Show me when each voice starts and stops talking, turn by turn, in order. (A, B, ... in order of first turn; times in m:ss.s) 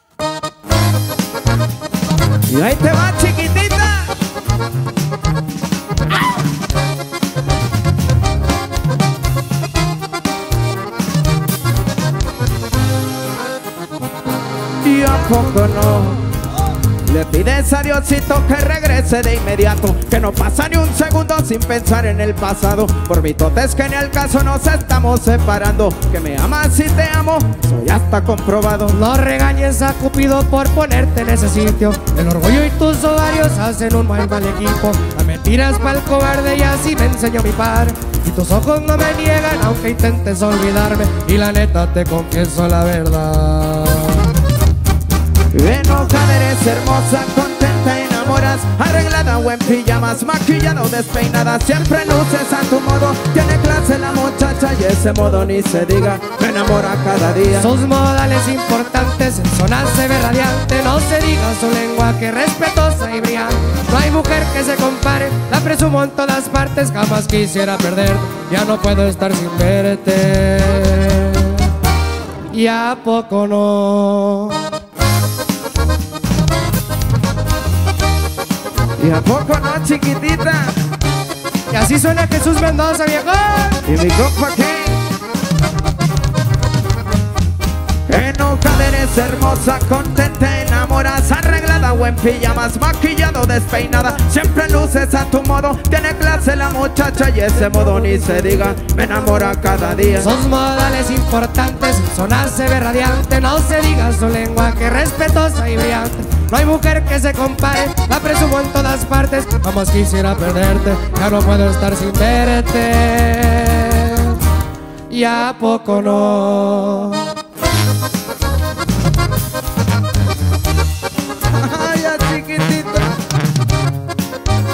0:02.5-0:04.1 A
0:14.8-0:16.2 A
0:17.0-0:29.0 A
0:28.9-0:44.3 B
0:45.5-0:57.7 A
0:57.6-1:11.8 B
1:12.5-1:14.7 B
1:19.0-1:20.8 A
1:21.7-1:23.8 B
1:23.9-1:25.0 A
1:28.1-1:40.3 A
1:40.2-1:54.4 B
1:55.1-1:57.4 B
2:01.5-2:03.2 A